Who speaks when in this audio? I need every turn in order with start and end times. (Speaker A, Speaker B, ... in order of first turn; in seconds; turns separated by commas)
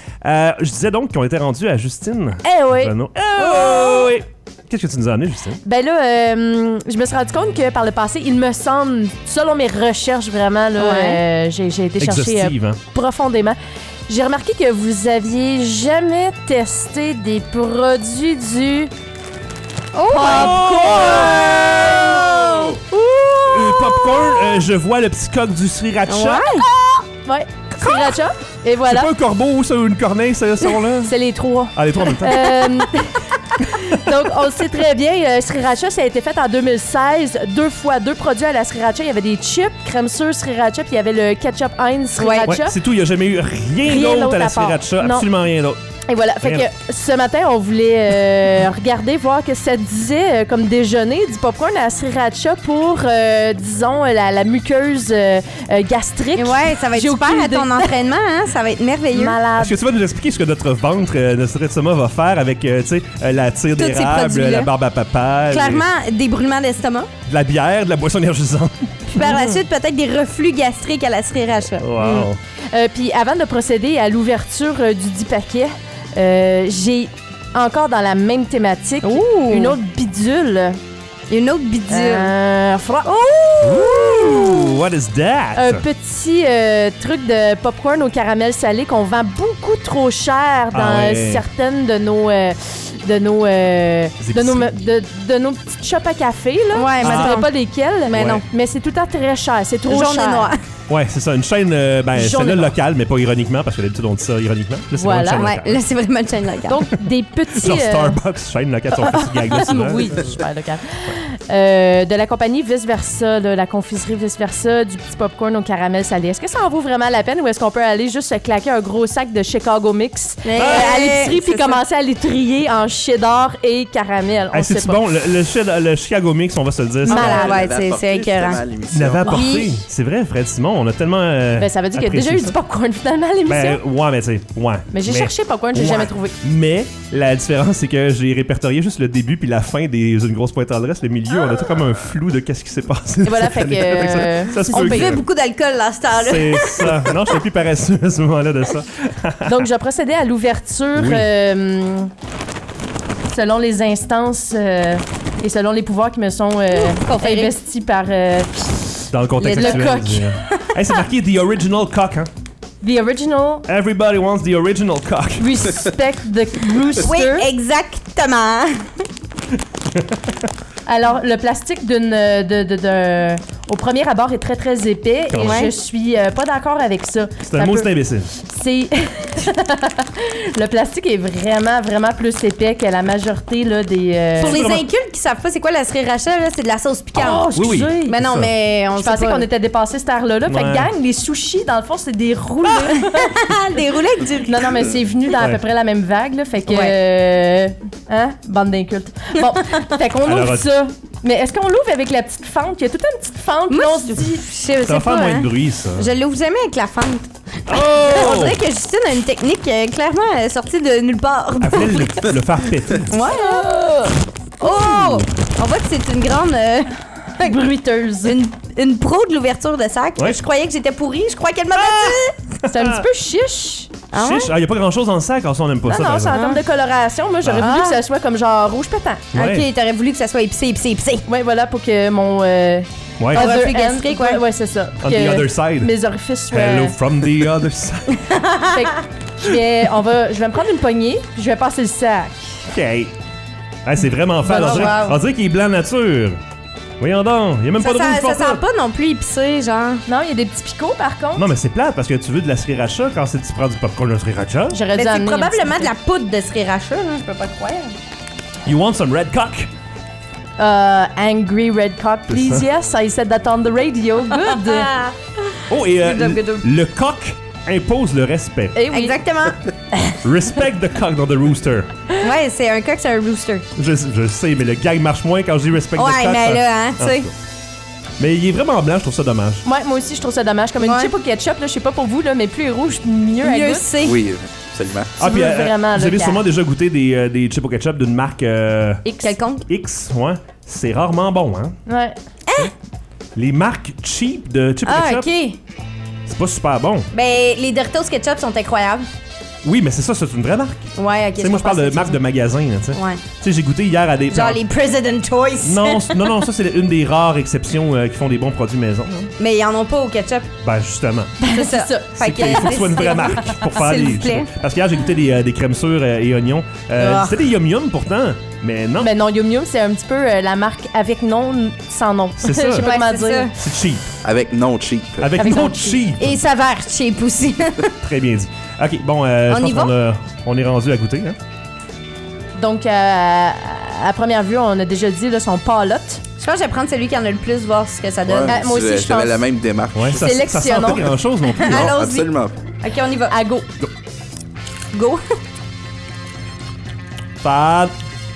Speaker A: 0.2-5.6, Speaker B: 2.4-4.1, Speaker B: 5.6-18.9, Speaker C: 10.8-11.2, Speaker A: 12.0-12.8, Speaker C: 19.9-22.8, Speaker B: 20.1-24.2, Speaker A: 20.3-22.7, Speaker A: 23.4-26.5, Speaker C: 26.1-26.7, Speaker B: 27.2-29.1, Speaker A: 27.8-28.1, Speaker A: 28.8-31.1, Speaker B: 31.0-42.8, Speaker A: 31.7-32.7, Speaker C: 42.2-42.5, Speaker A: 42.4-45.8, Speaker B: 43.8-45.3, Speaker B: 46.1-57.9, Speaker A: 46.4-46.7, Speaker C: 56.4-59.4, Speaker B: 59.1-59.8, Speaker A: 59.5-65.9, Speaker C: 63.7-64.7, Speaker C: 65.5-67.1, Speaker A: 67.2-69.1, Speaker C: 69.1-72.0, Speaker B: 69.2-69.6, Speaker A: 71.8-72.4, Speaker B: 72.0-80.8, Speaker C: 79.0-79.8, Speaker C: 81.3-82.3, Speaker B: 81.9-84.6, Speaker A: 83.6-85.8, Speaker B: 85.5-100.5, Speaker A: 90.7-91.4, Speaker A: 94.2-94.7, Speaker C: 96.7-97.5, Speaker A: 97.0-97.4, Speaker C: 98.1-98.4, Speaker A: 98.1-98.4, Speaker C: 99.9-100.6, Speaker A: 100.9-105.8, Speaker B: 102.1-102.8, Speaker B: 105.0-105.5, Speaker C: 105.3-106.8, Speaker B: 106.7-108.2, Speaker A: 107.5-110.3, Speaker B: 109.0-125.0, Speaker C: 120.4-121.8, Speaker A: 120.6-121.0, Speaker A: 124.5-127.5, Speaker C: 127.0-128.7, Speaker B: 127.0-127.6, Speaker D: 127.2-129.4, Speaker A: 128.9-132.5, Speaker C: 129.2-129.8, Speaker B: 131.6-133.8, Speaker A: 133.4-145.2, Speaker B: 134.9-136.3, Speaker B: 143.2-145.2, Speaker C: 144.7-147.3, Speaker A: 146.1-149.7, Speaker B: 149.4-152.1, Speaker A: 150.9-151.3, Speaker B: 153.3-160.3, Speaker C: 156.8-157.5, Speaker A: 159.1-162.3, Speaker C: 159.4-160.0, Speaker B: 162.8-163.7, Speaker A: 163.7-165.5, Speaker B: 165.4-167.5, Speaker C: 167.0-168.8, Speaker B: 170.8-184.6, Speaker A: 175.3-175.7, Speaker C: 175.3-175.7, Speaker A: 177.4-178.3, Speaker C: 184.4-189.4, Speaker A: 184.5-184.8, Speaker B: 187.2-188.2, Speaker A: 187.5-188.5, Speaker B: 188.9-193.4, Speaker A: 190.4-190.9, Speaker C: 192.7-194.8, Speaker B: 194.4-204.5, Speaker C: 196.7-196.9, Speaker A: 200.2-200.7, Speaker C: 203.7-213.7, Speaker A: 204.8-206.1, Speaker A: 207.7-208.6, Speaker A: 211.6-213.1, Speaker B: 213.1-214.1, Speaker C: 214.6-217.6, Speaker B: 217.4-218.4, Speaker C: 218.2-222.3, Speaker A: 220.2-220.4, Speaker A: 221.7-223.1, Speaker B: 222.7-223.9, Speaker C: 224.1-224.5, Speaker A: 224.2-226.4, Speaker B: 225.8-229.3, Speaker C: 226.3-226.6, Speaker C: 227.5-228.0, Speaker A: 229.3-229.7, Speaker C: 229.3-231.2, Speaker B: 231.3-236.9, Speaker A: 233.2-233.5, Speaker C: 233.3-234.4, Speaker A: 235.0-235.9, Speaker A: 236.5-238.3, Speaker C: 238.2-238.9, Speaker B: 238.7-242.6, Speaker A: 242.7-243.1, Speaker A: 243.8-246.4, Speaker B: 244.4-245.2, Speaker C: 244.5-245.2, Speaker A: 247.0-248.6, Speaker C: 247.8-250.0, Speaker B: 250.1-251.5, Speaker A: 251.3-254.8, Speaker B: 254.7-255.9, Speaker C: 254.9-257.9, Speaker A: 258.6-259.7, Speaker B: 260.6-264.9, Speaker A: 262.3-262.7, Speaker C: 264.4-266.6, Speaker A: 265.7-268.8, Speaker B: 268.7-269.2, Speaker C: 268.9-269.6, Speaker A: 270.2-271.9, Speaker C: 272.2-273.6, Speaker A: 273.8-277.3, Speaker C: 275.9-277.3, Speaker A: 278.2-279.6, Speaker B: 279.6-283.9, Speaker C: 280.8-281.1, Speaker C: 283.4-284.2, Speaker D: 284.0-285.1, Speaker A: 285.2-289.1, Speaker B: 285.2-286.5, Speaker B: 289.0-289.4, Speaker C: 289.2-289.6, Speaker A: 289.7-291.8, Speaker B: 291.9-292.2, Speaker A: 293.3-295.3, Speaker C: 294.8-295.6, Speaker A: 296.3-297.1, Speaker C: 297.1-299.1, Speaker A: 299.6-304.6, Speaker C: 300.9-302.2, Speaker C: 302.9-303.2, Speaker C: 304.3-306.4, Speaker A: 305.6-309.3, Speaker C: 309.4-310.5, Speaker A: 310.6-311.4, Speaker B: 311.4-313.7, Speaker C: 311.5-314.5, Speaker A: 312.2-319.1, Speaker C: 316.9-317.5, Speaker B: 319.0-323.5, Speaker A: 322.4-322.9, Speaker C: 322.7-323.5, Speaker A: 323.6-324.1, Speaker D: 324.2-325.3, Speaker A: 325.2-326.3, Speaker B: 325.3-326.0, Speaker C: 326.2-327.9, Speaker A: 328.0-331.4, Speaker C: 329.5-329.9, Speaker B: 332.6-336.2, Speaker C: 336.4-338.6, Speaker D: 338.2-340.4, Speaker B: 338.4-339.4, Speaker A: 339.9-341.9, Speaker B: 340.1-341.1, Speaker C: 341.4-343.4, Speaker D: 341.6-342.6, Speaker B: 343.3-343.6, Speaker C: 344.9-345.2, Speaker A: 347.4-347.9